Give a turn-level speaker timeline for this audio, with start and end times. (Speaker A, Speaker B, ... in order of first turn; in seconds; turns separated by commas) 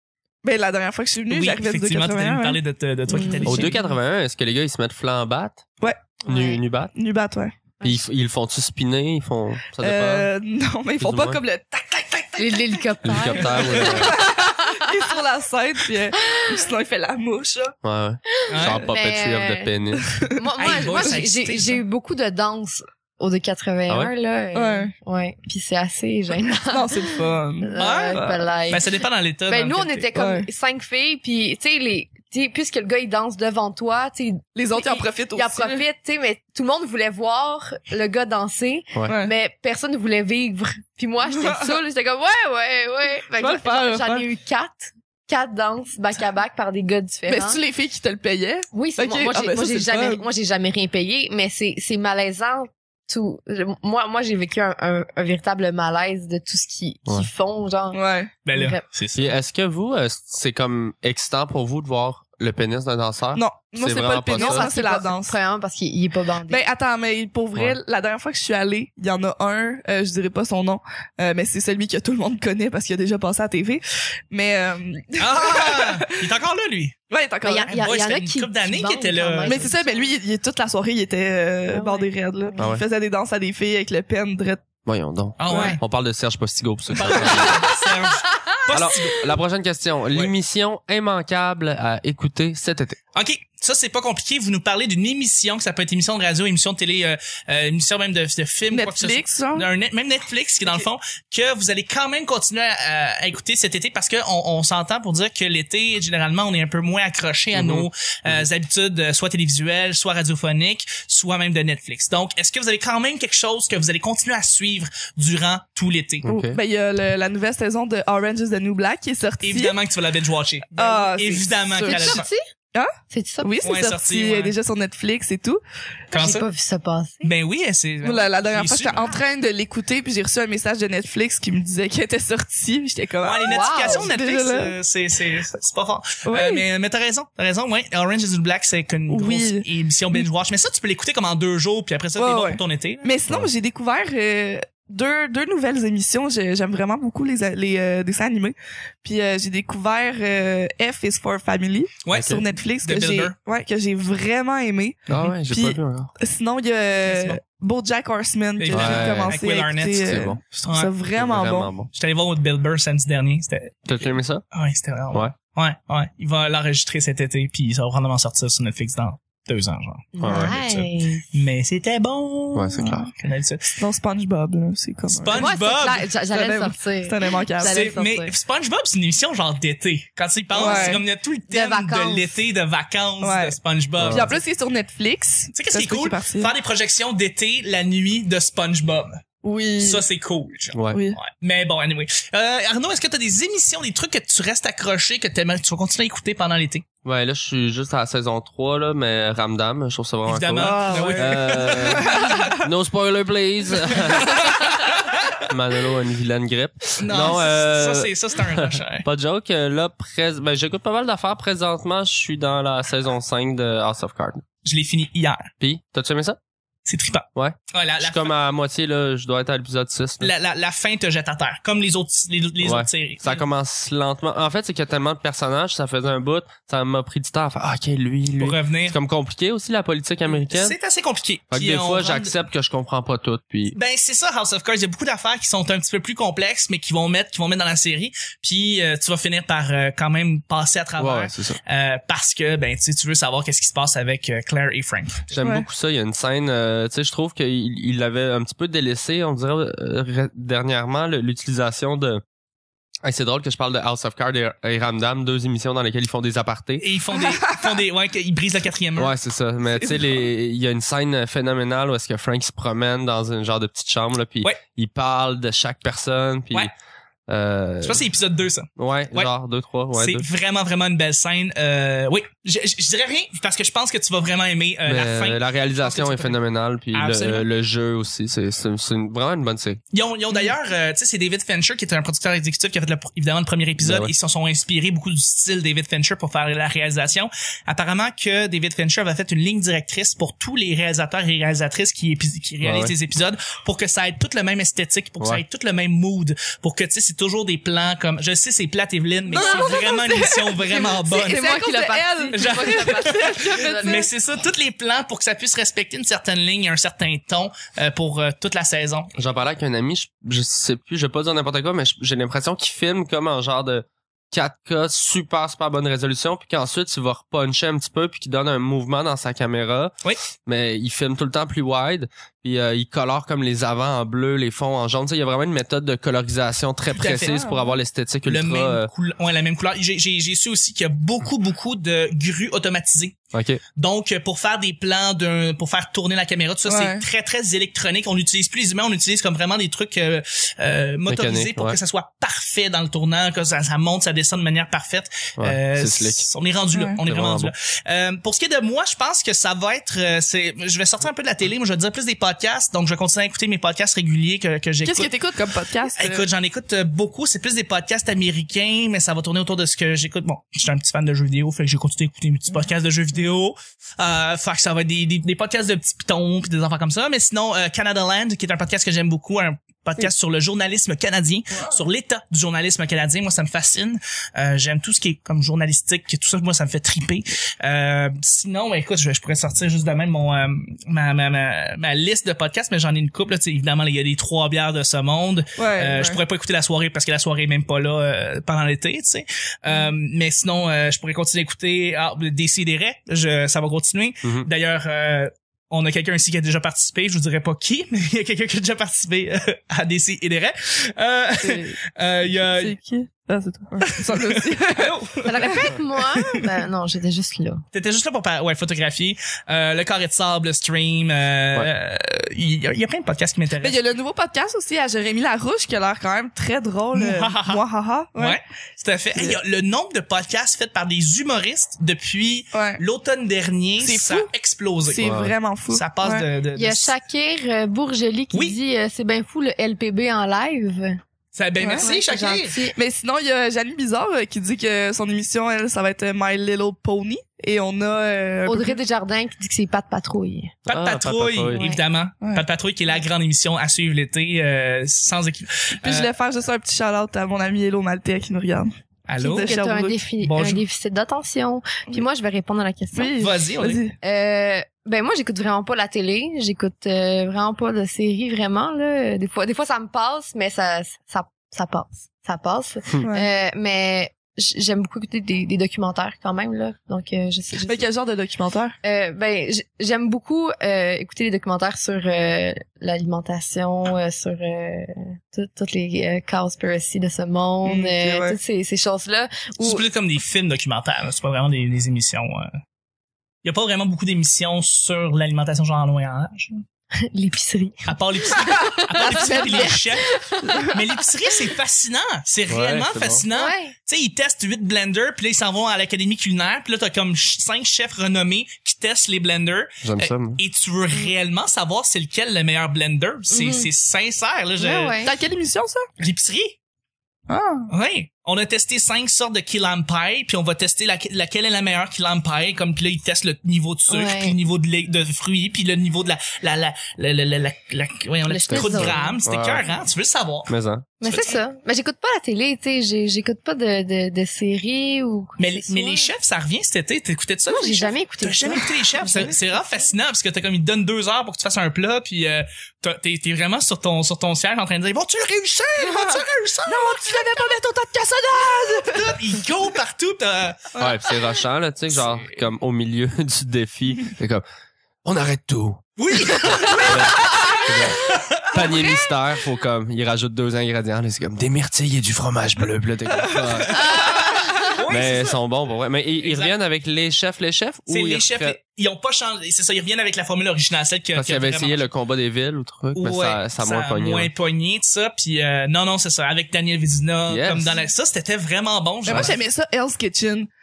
Speaker A: 0.4-2.6, Speaker B: 1.3-3.8, Speaker C: 3.1-3.8, Speaker D: 3.5-5.6, Speaker A: 5.8-6.2, Speaker C: 6.2-6.6, Speaker D: 6.3-6.9, Speaker A: 6.9-7.6, Speaker C: 7.8-8.1, Speaker D: 7.8-10.3, Speaker A: 9.8-17.8, Speaker D: 11.0-11.4, Speaker C: 12.4-15.1, Speaker D: 13.0-14.2, Speaker C: 16.3-16.6, Speaker D: 17.8-20.1, Speaker C: 18.5-19.7, Speaker B: 18.5-18.9, Speaker A: 20.1-21.0, Speaker C: 20.4-28.9, Speaker B: 20.6-21.8, Speaker A: 24.5-24.9, Speaker A: 26.7-28.4, Speaker B: 27.8-30.1, Speaker C: 29.5-47.6, Speaker A: 30.1-30.5, Speaker A: 34.5-35.8, Speaker A: 39.1-39.3, Speaker A: 43.4-44.3, Speaker A: 47.3-50.2, Speaker C: 48.7-58.0, Speaker A: 57.9-58.3, Speaker B: 58.5-59.3, Speaker C: 58.5-58.8, Speaker D: 59.2-64.7, Speaker A: 63.4-65.4, Speaker C: 64.3-66.7, Speaker A: 66.5-76.2, Speaker B: 75.2-77.0, Speaker A: 77.1-77.9, Speaker C: 77.4-80.1, Speaker B: 77.7-79.6, Speaker A: 79.5-84.6, Speaker C: 81.7-82.8, Speaker D: 82.6-82.8, Speaker D: 84.8-87.7, Speaker B: 85.4-85.8, Speaker C: 85.5-85.8, Speaker B: 86.9-89.4, Speaker D: 88.7-93.0, Speaker B: 93.2-116.3, Speaker A: 98.7-99.7, Speaker D: 107.5-108.5, Speaker D: 116.2-116.6, Speaker A: 116.3-119.8, Speaker B: 119.4-122.3, Speaker A: 120.8-122.9, Speaker C: 121.8-122.4, Speaker C: 123.1-123.5, Speaker A: 123.4-125.6, Speaker B: 123.6-124.5, Speaker B: 126.1-126.5, Speaker C: 126.1-127.3, Speaker B: 127.2-129.1, Speaker A: 128.0-134.7, Speaker B: 133.2-143.1, Speaker C: 133.5-134.1, Speaker A: 136.2-136.7, Speaker A: 139.1-140.3, Speaker A: 142.2-161.7, Speaker B: 152.0-153.3, Speaker D: 152.1-152.4, Speaker D: 155.1-156.1, Speaker B: 157.1-157.4, Speaker B: 158.6-160.9, Speaker D: 158.7-159.4, Speaker D: 160.1-160.4, Speaker D: 161.2-161.9, Speaker B: 161.9-163.8, Speaker D: 163.9-164.4, Speaker B: 164.5-173.6, Speaker C: 170.2-171.2, Speaker D: 170.2-170.6, Speaker D: 172.6-173.1, Speaker A: 172.8-173.1, Speaker A: 173.8-175.5, Speaker B: 175.1-176.1, Speaker C: 175.3-178.3, Speaker A: 176.3-177.8, Speaker B: 177.6-184.4, Speaker A: 180.5-181.0, Speaker C: 180.5-182.4, Speaker A: 183.2-186.5, Speaker D: 184.0-184.3, Speaker B: 185.6-189.2, Speaker A: 189.4-190.0, Speaker B: 189.8-196.8, Speaker D: 190.7-191.0, Speaker A: 190.9-191.2, Speaker D: 197.1-204.6, Speaker B: 200.3-202.5, Speaker A: 200.6-202.6, Speaker B: 204.6-204.9, Speaker D: 205.5-214.4, Speaker B: 207.0-209.1, Speaker B: 214.6-215.5, Speaker D: 215.6-216.4, Speaker B: 216.9-218.3, Speaker D: 217.3-220.3, Speaker B: 220.2-223.4, Speaker D: 222.6-230.8, Speaker B: 228.4-229.0, Speaker B: 230.5-232.3, Speaker D: 231.5-233.8, Speaker B: 233.7-245.3, Speaker D: 241.0-241.6, Speaker D: 245.3-252.2, Speaker D: 253.0-256.9, Speaker B: 256.8-259.1, Speaker D: 259.0-266.7, Speaker A: 259.8-260.1, Speaker D: 267.3-268.1, Speaker B: 267.8-269.3, Speaker D: 268.8-270.3, Speaker B: 269.9-276.4, Speaker D: 274.9-279.8, Speaker B: 276.9-277.5, Speaker B: 279.9-301.4, Speaker D: 283.8-284.1, Speaker D: 292.6-292.9, Speaker A: 299.3-304.1, Speaker C: 299.4-299.8, Speaker C: 300.8-304.1, Speaker B: 302.3-309.1, Speaker D: 309.2-328.9, Speaker B: 326.9-327.4, Speaker A: 327.3-327.7, Speaker B: 328.2-333.1, Speaker D: 333.3-333.6, Speaker B: 333.8-355.1, Speaker A: 336.7-337.0, Speaker D: 341.1-341.8, Speaker D: 345.4-346.3, Speaker A: 346.7-347.0, Speaker D: 347.1-347.5, Speaker A: 354.8-356.3, Speaker B: 355.9-402.8, Speaker A: 385.6-386.2, Speaker A: 401.4-401.8, Speaker A: 402.4-405.5, Speaker B: 404.1-405.2, Speaker C: 405.2-407.6, Speaker B: 407.7-413.8, Speaker A: 413.6-418.4, Speaker B: 416.9-417.6, Speaker B: 418.2-425.1, Speaker A: 419.1-419.4, Speaker A: 422.5-422.8, Speaker A: 423.8-424.3, Speaker A: 424.8-426.3, Speaker D: 425.0-425.3, Speaker B: 425.7-426.9, Speaker C: 426.6-431.0, Speaker B: 428.3-428.6, Speaker B: 431.3-432.6, Speaker A: 431.6-431.9, Speaker C: 431.8-432.8, Speaker A: 432.7-438.8, Speaker C: 438.5-440.6, Speaker B: 440.7-446.1, Speaker D: 440.7-441.7, Speaker C: 441.6-441.8, Speaker A: 445.8-448.7, Speaker B: 449.1-449.5, Speaker C: 449.2-453.1, Speaker A: 449.3-450.0, Speaker B: 450.2-450.6, Speaker A: 452.9-453.9, Speaker B: 453.2-453.8, Speaker C: 454.0-467.9, Speaker A: 463.0-463.3, Speaker A: 467.6-468.8, Speaker C: 468.8-479.8, Speaker A: 477.6-478.4, Speaker B: 479.6-482.5, Speaker B: 483.4-486.6, Speaker C: 487.0-490.7, Speaker B: 487.9-490.1, Speaker A: 489.0-489.8, Speaker B: 490.7-505.0, Speaker D: 492.5-493.2, Speaker C: 493.3-493.7, Speaker D: 499.8-500.4, Speaker C: 503.3-503.7, Speaker C: 504.6-505.1, Speaker A: 505.0-505.9, Speaker B: 506.0-506.6, Speaker A: 507.3-507.7, Speaker B: 507.7-521.4, Speaker C: 513.9-514.4, Speaker C: 518.3-519.2, Speaker D: 518.5-519.7, Speaker D: 520.5-520.9, Speaker C: 521.0-526.1, Speaker B: 525.4-537.2, Speaker C: 527.5-529.6, Speaker A: 535.9-536.1, Speaker A: 536.7-539.1, Speaker B: 538.7-540.7, Speaker A: 540.7-541.0, Speaker D: 540.8-544.4, Speaker B: 541.9-542.4, Speaker D: 545.0-545.8, Speaker B: 546.0-547.2, Speaker D: 546.9-553.8, Speaker B: 547.9-548.6, Speaker B: 553.6-555.4, Speaker D: 554.9-558.6, Speaker B: 556.2-556.6, Speaker B: 557.9-561.9, Speaker D: 561.1-564.3, Speaker B: 563.0-569.4, Speaker D: 567.3-567.7, Speaker A: 569.1-570.5